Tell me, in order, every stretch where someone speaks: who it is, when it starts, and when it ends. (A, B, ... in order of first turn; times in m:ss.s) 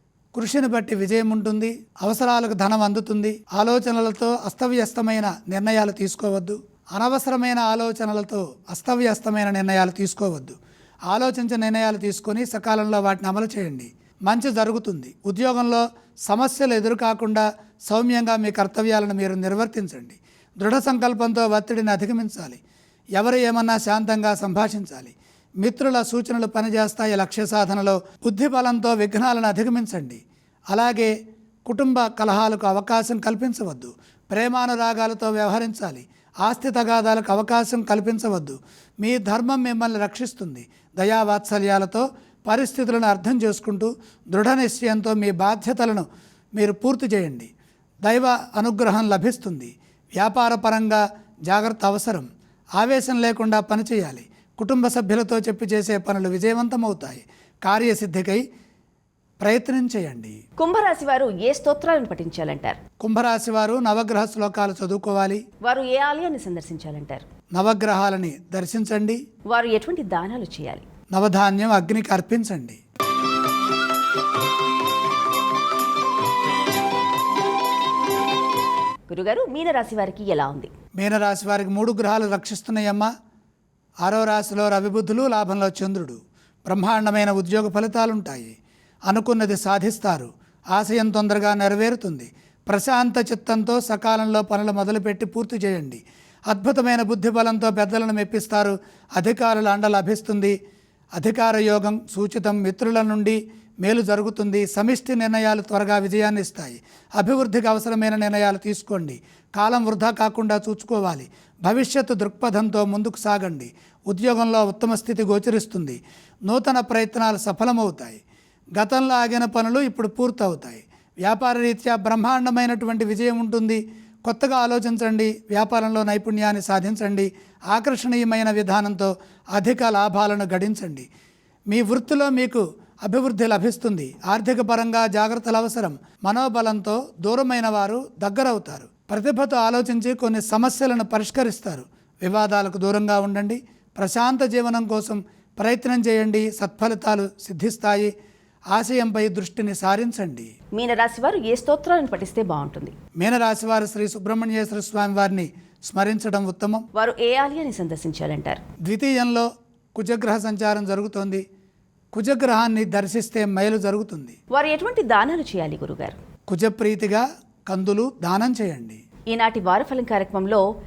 0:00.3-0:22.6 A
0:23.2-0:31.1 A
0:31.6-0:47.5 A
0:48.0-0:52.3 A
0:52.8-0:58.4 A
0:59.4-1:00.4 A
1:00.6-1:02.8 B
1:03.0-1:05.4 A
1:05.6-1:07.2 B
1:07.5-1:09.2 A
1:09.5-1:10.8 B
1:11.1-1:12.8 A
1:19.1-1:20.7 B
1:21.0-1:23.1 A
1:24.0-1:28.5 A
1:29.1-1:40.6 A
1:41.2-1:58.2 A
1:58.8-2:11.1 A
2:11.7-2:28.1 A
2:28.7-2:30.5 A
2:30.7-2:32.9 B
2:33.2-2:36.8 A
2:36.9-2:38.6 B
2:38.8-2:41.4 A
2:42.1-2:44.4 A
2:44.5-2:46.2 B
2:46.5-2:49.0 A
2:49.3-2:50.6 B